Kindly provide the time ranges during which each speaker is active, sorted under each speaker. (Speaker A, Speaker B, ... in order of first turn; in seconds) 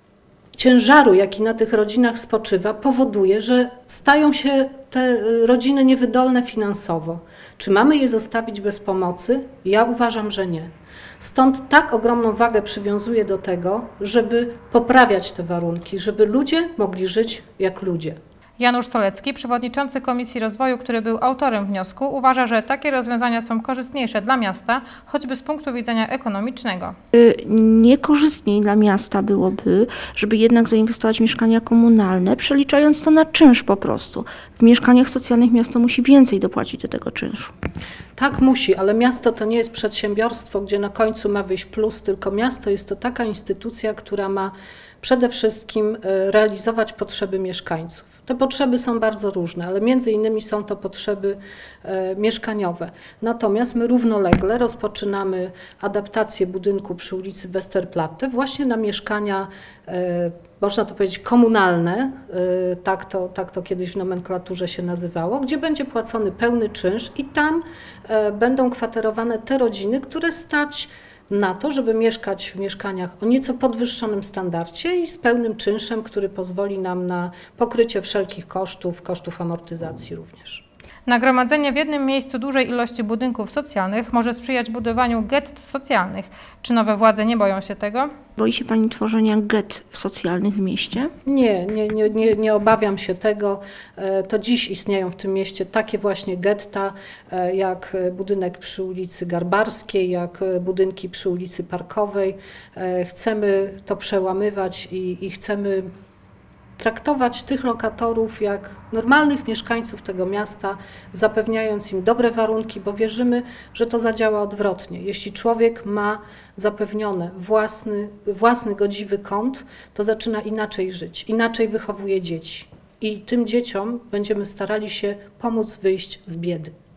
Speaker A: 0.6-18.2, 38.1-80.6, 91.2-105.9, 106.8-126.7
Speaker B: 18.6-26.9, 81.0-88.1
Speaker C: 27.1-37.5, 88.4-91.1